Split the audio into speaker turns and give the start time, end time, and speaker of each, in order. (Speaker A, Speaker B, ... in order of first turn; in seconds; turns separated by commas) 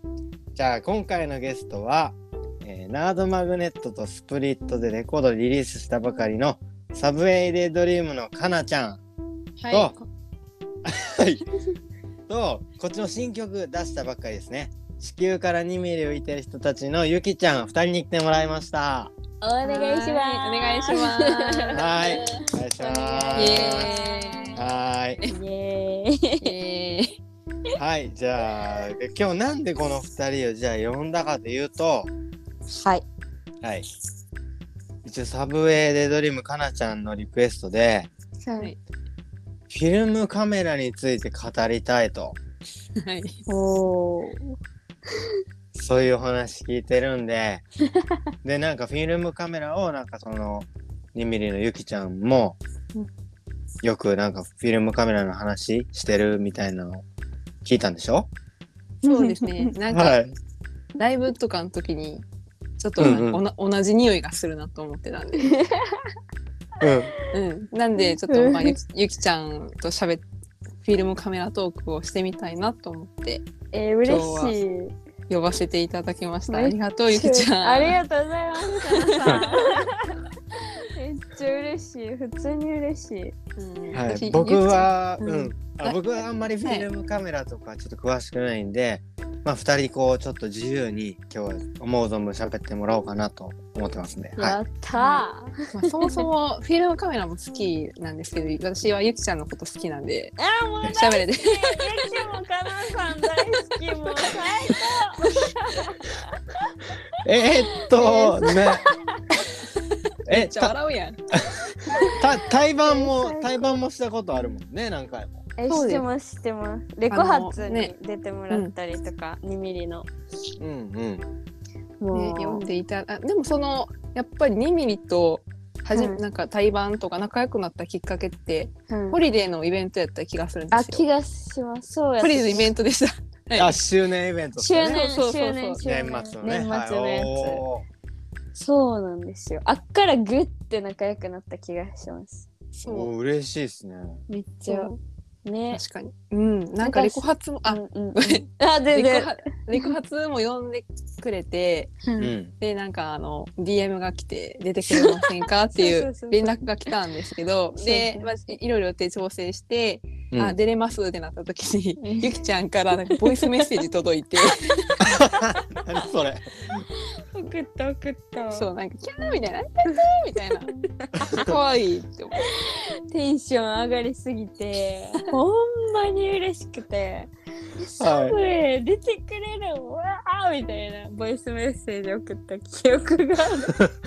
Speaker A: 0.5-9.0, Speaker B: 9.6-10.0, Speaker A: 10.8-11.4, Speaker A: 12.3-19.1, Speaker C: 19.4-24.6, Speaker B: 19.6-22.2, Speaker A: 21.7-23.9, Speaker B: 23.4-24.6, Speaker A: 24.6-25.2, Speaker C: 25.2-26.5, Speaker B: 26.4-27.2, Speaker A: 27.8-32.1, Speaker C: 32.7-33.0, Speaker A: 35.0-38.1, Speaker C: 38.4-38.7, Speaker A: 39.7-42.4, Speaker B: 43.0-43.4, Speaker C: 43.5-44.5, Speaker A: 45.7-47.6, Speaker A: 48.4-52.6, Speaker A: 53.8-57.0, Speaker A: 57.6-58.3, Speaker B: 59.0-60.2, Speaker C: 59.0-59.4, Speaker A: 59.9-60.3, Speaker B: 61.0-62.2, Speaker B: 62.8-65.5, Speaker A: 63.0-63.4, Speaker C: 65.4-66.1, Speaker A: 66.8-67.1, Speaker B: 67.3-70.2, Speaker C: 68.0-68.7, Speaker B: 70.8-73.5, Speaker C: 73.7-74.9, Speaker B: 74.0-74.5, Speaker B: 75.3-78.0, Speaker C: 76.5-79.9, Speaker B: 78.9-79.5, Speaker C: 80.9-83.3, Speaker B: 83.6-85.9, Speaker A: 83.9-94.6, Speaker B: 86.6-86.9, Speaker C: 94.4-95.5, Speaker B: 95.0-100.3, Speaker C: 100.4-106.4, Speaker B: 100.9-102.1, Speaker A: 107.2-108.9, Speaker C: 107.8-109.0, Speaker B: 110.1-111.2, Speaker A: 110.3-110.8, Speaker A: 111.3-115.4, Speaker C: 111.9-112.2, Speaker C: 112.8-113.8, Speaker C: 115.6-120.1, Speaker B: 115.7-116.0, Speaker B: 117.1-117.9, Speaker A: 120.6-121.2, Speaker C: 122.0-122.6, Speaker B: 122.1-131.0, Speaker C: 125.9-126.2, Speaker C: 128.9-129.2, Speaker C: 130.7-132.7, Speaker B: 132.2-133.7, Speaker A: 133.5-135.0, Speaker C: 134.6-137.6, Speaker B: 134.8-135.8, Speaker A: 135.8-137.8, Speaker C: 138.5-142.5, Speaker B: 142.8-143.1, Speaker A: 142.8-144.2, Speaker C: 144.3-144.9, Speaker B: 144.7-145.0, Speaker C: 145.4-145.8, Speaker B: 145.7-152.1, Speaker C: 146.8-149.9, Speaker A: 152.2-152.5, Speaker B: 152.6-164.9, Speaker C: 154.8-155.3, Speaker C: 155.8-156.9, Speaker C: 157.7-158.3, Speaker A: 160.3-160.6, Speaker C: 162.0-162.3, Speaker C: 163.2-163.7, Speaker A: 165.0-166.8, Speaker C: 167.3-168.7, Speaker B: 168.5-170.7, Speaker C: 170.6-171.2, Speaker A: 171.2-171.6, Speaker B: 171.3-172.4, Speaker C: 172.4-183.8, Speaker A: 178.0-178.4